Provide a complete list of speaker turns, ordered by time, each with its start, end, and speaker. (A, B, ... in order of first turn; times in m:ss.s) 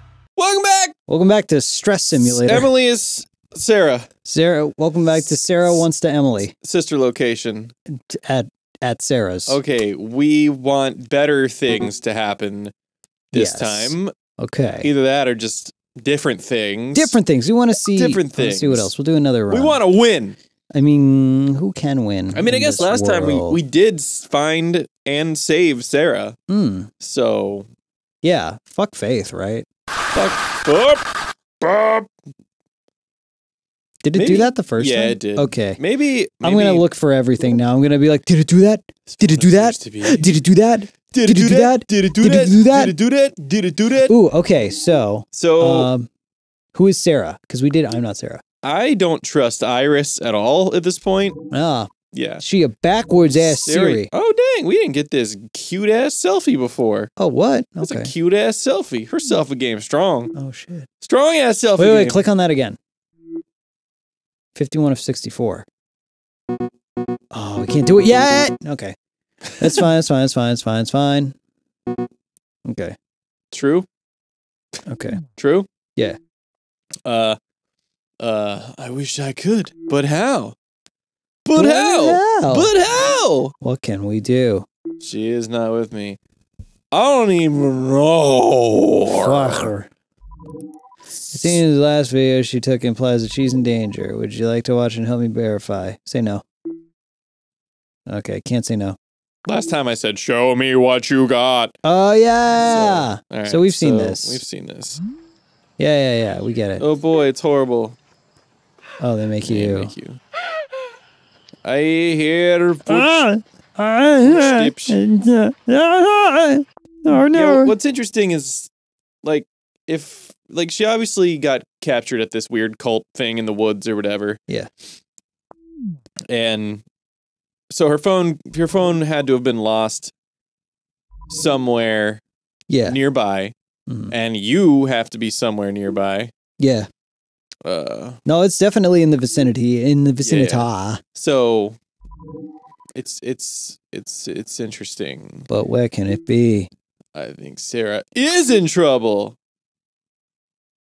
0:00.4-0:01.0 A
0:01.1-0:02.7 B
0:02.1-0:04.1 A
0:04.2-0:06.5 B
0:05.1-0:05.8 A
0:06.6-0:07.7 A
0:07.9-0:09.6 B
0:09.5-0:12.7 A
0:13.3-0:14.1 A
0:13.3-0:14.9 B
0:14.8-0:17.2 A
0:17.0-0:19.8 B
0:17.9-0:18.9 A
0:19.5-0:20.4 A
0:20.8-0:23.6 B
0:22.3-0:26.4 A
0:26.5-0:26.9 B
0:27.0-0:27.7 A
0:28.2-0:29.7 B
0:30.1-0:32.1 A
0:34.0-0:35.8 B
0:34.1-0:36.9 A
0:36.4-0:43.0 B
0:39.1-0:40.3 A
0:41.1-0:44.1 A
0:44.1-0:46.1 B
0:45.3-0:45.9 A
0:46.8-0:48.4 B
0:48.6-0:51.4 A
0:51.5-0:54.1 B
0:52.1-0:52.4 A
0:53.3-0:57.1 A
0:57.2-0:58.1 B
0:57.8-1:00.3 A
1:00.3-1:00.9 B
1:01.0-1:02.2 A
1:01.8-1:02.8 B
1:04.6-1:05.7 B
1:07.3-1:09.0 B
1:09.6-1:11.4 B
1:12.6-1:13.0 B
1:13.5-1:13.9 A
1:14.9-1:15.2 B
1:15.4-1:15.7 A
1:17.0-1:17.4 A
1:18.2-1:20.6 A
1:21.4-1:23.5 A
1:21.6-1:22.7 B
1:23.6-1:24.7 B
1:25.0-1:26.2 A
1:26.9-1:29.7 A
1:29.1-1:29.9 B
1:31.1-1:31.6 A
1:31.3-1:36.4 B
1:38.1-1:39.0 B
1:39.5-1:41.8 A
1:41.8-1:44.4 B
1:42.6-1:45.0 A
1:45.8-1:46.8 B
1:46.8-1:48.0 A
1:49.0-1:49.9 B
1:49.4-1:50.2 A
1:51.6-1:53.3 A
1:52.9-1:57.7 B
1:54.2-1:55.0 A
1:57.3-1:58.7 A
1:59.2-2:04.4 A
2:06.3-2:06.8 A
2:07.7-2:10.1 A
2:11.3-2:12.2 A
2:12.7-2:13.0 B
2:12.8-2:13.5 A
2:13.9-2:14.1 B
2:14.1-2:16.3 A
2:16.6-2:16.9 B
2:17.6-2:18.2 A
2:18.3-2:21.0 B
2:20.2-2:21.8 A
2:23.0-2:25.5 A
2:25.5-2:26.7 B
2:27.2-2:29.4 A